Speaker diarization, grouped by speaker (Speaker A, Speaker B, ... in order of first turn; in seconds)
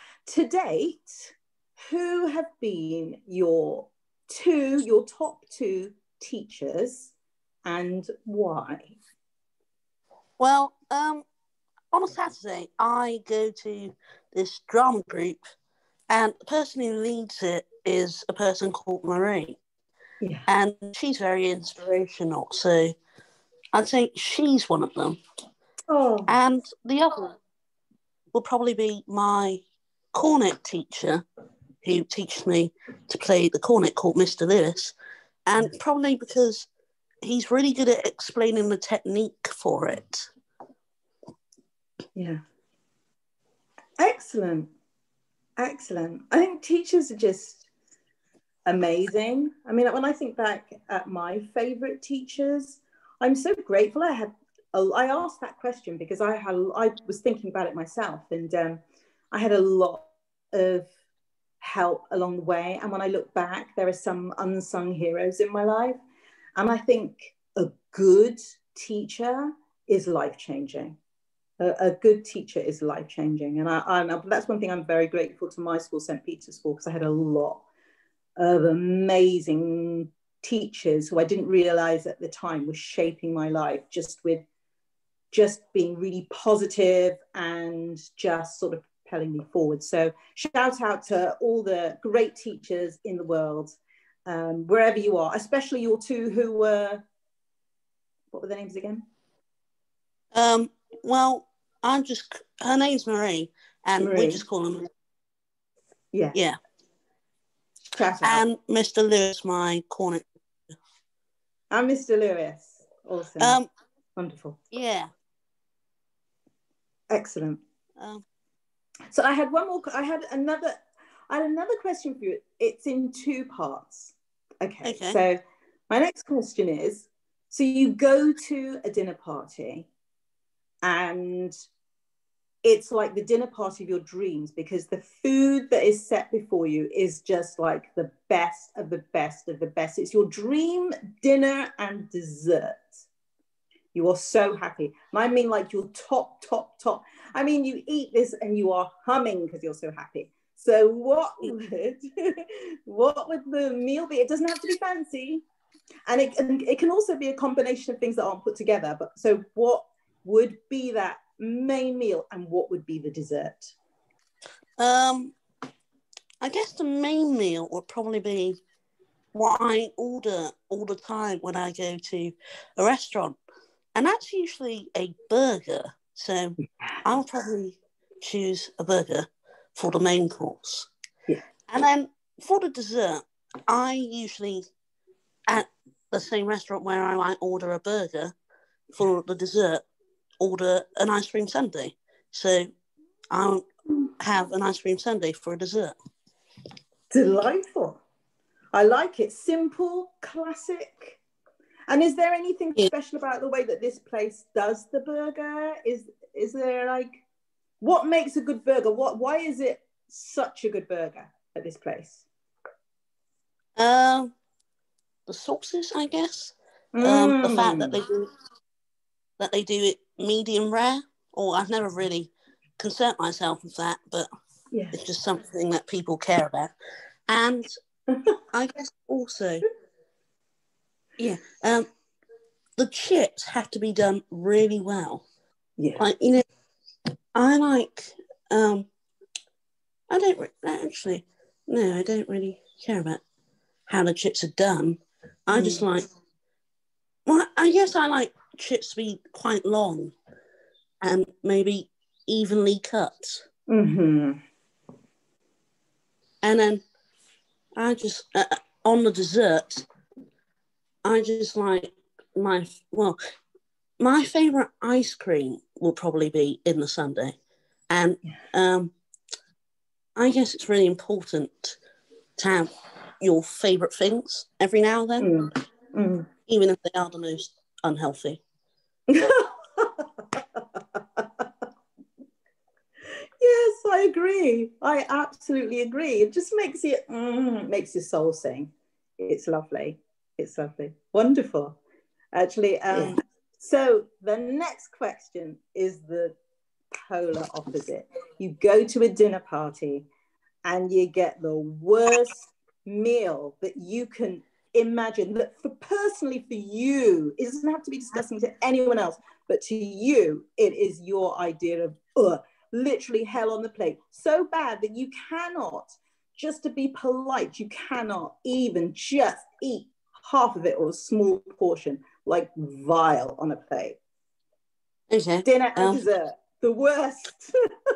Speaker A: 0.3-1.4, 1.9-7.1, 7.6-9.0, 20.2-20.5, 25.9-26.3, 44.0-44.7, 45.6-47.7, 48.7-58.8, 59.3-60.9, 61.6-66.0, 66.6-71.0, 71.6-77.6, 78.4-84.4, 85.3-97.0, 98.3-99.0, 104.0-104.4, 106.1-106.4, 107.9-108.5, 111.7-113.6, 114.2-114.6, 117.1-117.6, 119.1-129.9, 130.8-131.5, 132.6-143.1, 143.9-155.4, 156.1-163.8, 197.1-198.0, 198.7-201.2, 201.9-207.1, 207.8-212.2, 216.9-218.0, 235.8-236.1, 245.5-245.8, 253.7-254.4, 275.2-276.3, 279.1-281.2, 283.4-291.8, 292.3-296.3, 296.9-300.1, 300.6-324.0, 325.4-327.5
Speaker B: 10.4-11.2, 11.9-15.4, 16.1-19.6, 20.5-22.9, 23.7-25.2, 26.3-27.4, 28.3-29.6, 30.1-31.2, 31.8-35.0, 35.5-36.7, 37.2-40.3, 100.3-104.9, 108.2-110.2, 113.4-113.7, 114.7-115.1, 118.0-118.2, 124.8-125.2, 164.8-165.3, 166.4-168.6, 169.3-173.4, 173.9-180.9, 181.7-184.6, 185.5-188.3, 188.9-189.8, 190.4-192.7, 193.3-193.6, 194.2-195.9, 213.8-214.3, 215.3-218.3, 219.4-224.3, 224.9-226.7, 227.3-227.7, 228.5-229.6, 231.2-231.9, 232.8-235.2, 236.0-236.4, 237.3-238.9, 240.1-243.2, 243.9-246.0, 247.2-250.1, 251.0-253.4, 256.4-256.8, 257.8-259.8, 261.0-263.1, 264.0-267.3, 267.9-268.9, 270.1-271.8, 272.4-272.7, 273.2-275.2, 276.5-278.4, 325.1-326.0